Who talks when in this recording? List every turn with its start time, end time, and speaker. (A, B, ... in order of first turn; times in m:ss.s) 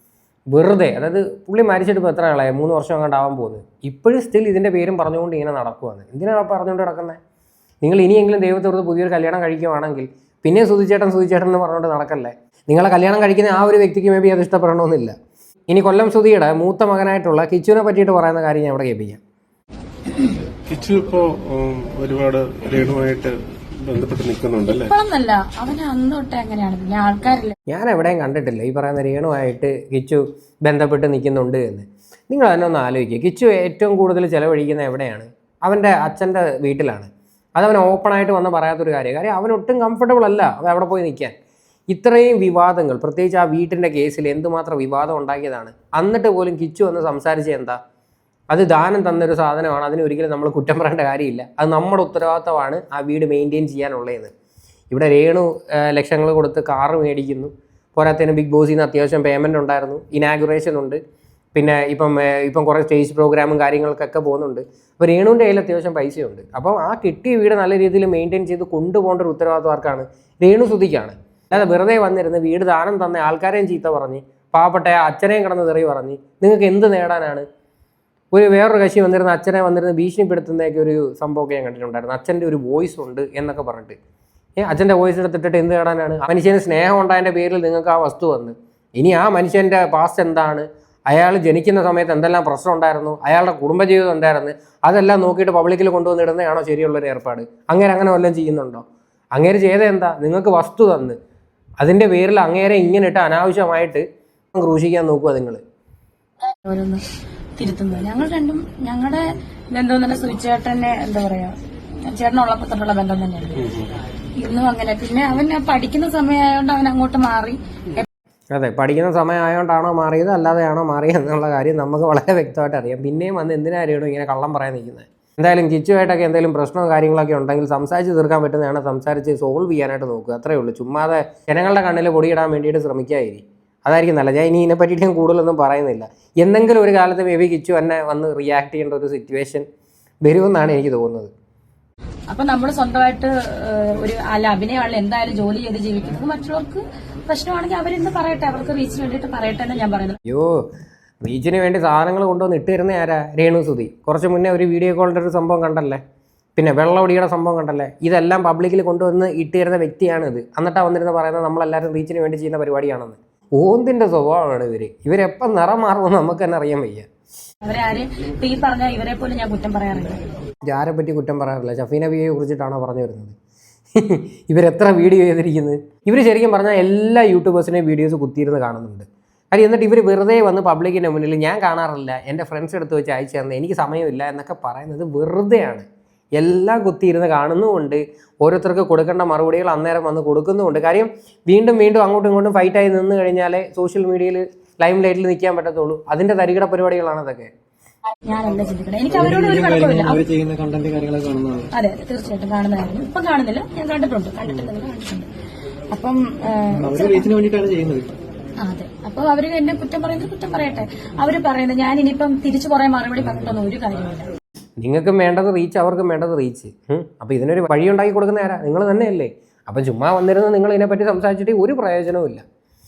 0:00.5-0:07.2 A
0:07.8-0:15.1 A
0:15.7-0:19.2 A
0:20.7-0:24.9 B
0:24.8-0:27.6 C
0:27.7-0:41.3 A
0:41.9-0:47.8 A
0:48.5-0:54.3 A
0:54.9-1:01.0 A
1:01.6-1:17.4 A
1:18.3-1:24.0 A
1:24.6-1:41.2 A
1:41.8-1:45.6 A
1:46.6-1:47.0 C
1:47.6-1:53.6 C
1:53.6-1:53.9 B
1:54.4-1:58.1 C
1:58.5-2:19.6 A
2:20.2-2:21.3 A
2:22.3-2:30.2 C
2:30.3-2:30.6 A
2:31.2-2:36.0 A
2:36.6-2:47.1 A
2:47.6-2:50.2 C
2:50.6-2:53.4 A
2:54.0-3:05.9 A
3:06.4-3:17.5 A
3:18.3-3:20.2 C
3:19.1-3:21.7 D
3:21.7-3:25.3 C
3:24.4-3:24.7 D
3:25.9-3:27.3 C
3:26.8-3:28.2 D
3:28.6-3:34.3 C
3:34.8-3:42.4 A